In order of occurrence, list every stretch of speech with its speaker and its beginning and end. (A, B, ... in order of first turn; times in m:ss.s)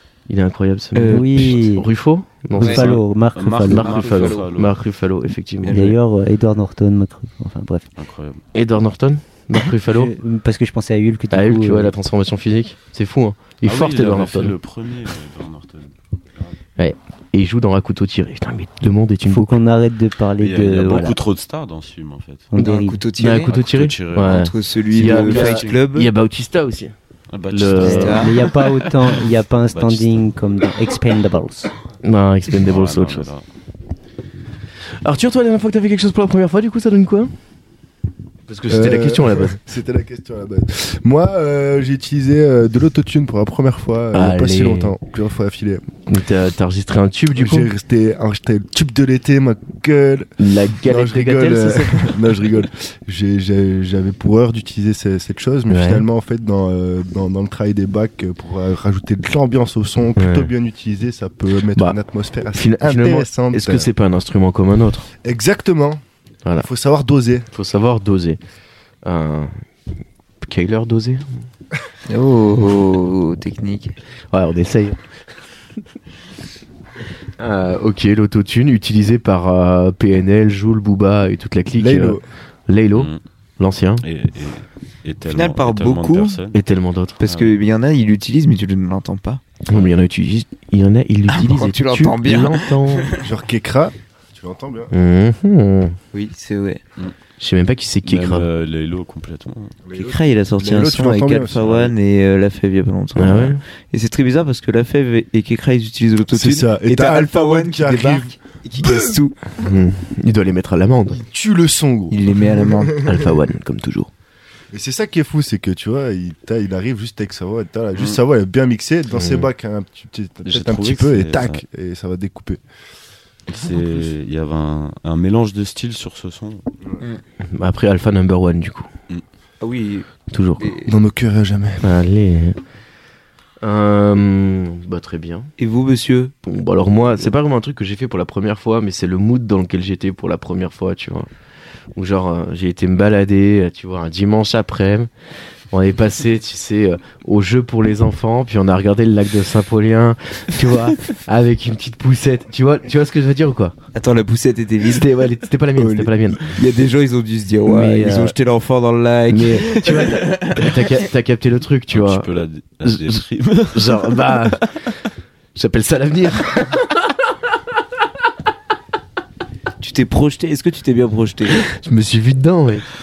0:00.3-0:03.0 A
0:01.0-0:01.5 B
0:01.1-0:01.9 C
0:02.6-0:03.9 C
0:02.6-0:03.0 B
0:02.6-0:04.8 D
0:03.6-0:04.5 B
0:03.6-0:05.9 A
0:05.6-0:06.0 B
0:05.7-0:07.9 C
0:08.0-0:08.4 D
0:08.5-0:10.1 A
0:09.9-0:11.9 C
0:11.3-0:14.6 A
0:13.6-0:16.6 D
0:16.8-0:19.6 A
0:19.3-0:21.2 C
0:20.4-0:22.5 D
0:22.5-0:23.0 C
0:22.6-0:23.5 B
0:23.2-0:26.9 A
0:23.4-0:25.6 D
0:24.2-0:26.1 B
0:27.3-0:28.7 D
0:27.5-0:28.3 A
0:27.8-0:28.4 B
0:27.8-0:31.7 C
0:29.7-0:30.2 D
0:32.0-0:33.3 A
0:32.5-0:33.4 D
0:35.0-0:37.3 A
0:38.5-0:39.6 A
0:38.7-0:45.9 E
0:44.1-0:45.0 A
0:46.1-0:47.7 A
0:47.3-0:50.3 E
0:50.4-0:52.3 A
0:50.8-1:03.9 E
0:55.7-0:56.1 A
1:00.2-1:00.5 A
1:02.5-1:05.1 A
1:05.2-1:06.0 E
1:06.6-1:07.5 E
1:07.5-1:08.4 A
1:09.0-1:09.6 A
1:10.4-1:11.4 A
1:12.1-1:14.0 B
1:14.3-1:15.0 A
1:17.4-1:24.0 A
1:21.8-1:22.2 E
1:22.9-1:23.2 D
1:24.0-1:26.6 D
1:25.3-1:26.4 B
1:26.5-1:27.2 A
1:27.2-1:29.4 B
1:27.2-1:27.6 D
1:29.7-1:33.2 A
1:31.3-1:33.3 B
1:33.2-1:34.9 E
1:34.9-1:36.0 A
1:36.1-1:36.8 B
1:37.4-1:38.5 A
1:38.0-1:39.8 D
1:39.9-1:41.9 E
1:39.9-1:49.4 B
1:43.2-1:43.6 A
1:46.3-1:49.2 E
1:49.6-1:51.2 A
1:51.2-1:53.4 E
1:52.1-1:53.0 B
1:53.0-1:54.1 A
1:54.7-2:02.6 E
1:59.1-1:59.5 A
2:00.4-2:01.6 D
2:03.5-2:06.6 D
2:07.4-2:08.9 A
2:09.6-2:10.9 B
2:10.3-2:10.7 A
2:10.9-2:11.9 E
2:11.8-2:12.6 A
2:13.6-2:15.5 A
2:15.6-2:16.3 B
2:16.4-2:21.3 A
2:22.0-2:25.1 A
2:25.7-2:33.8 A
2:33.9-2:35.1 B
2:34.8-2:36.5 A
2:35.8-2:36.4 E
2:36.4-2:41.0 B
2:37.7-2:38.4 A
2:39.3-2:42.3 A
2:41.9-2:44.6 D
2:42.8-2:44.7 A
2:45.6-2:47.1 A
2:49.8-2:51.6 B
2:51.5-2:52.9 A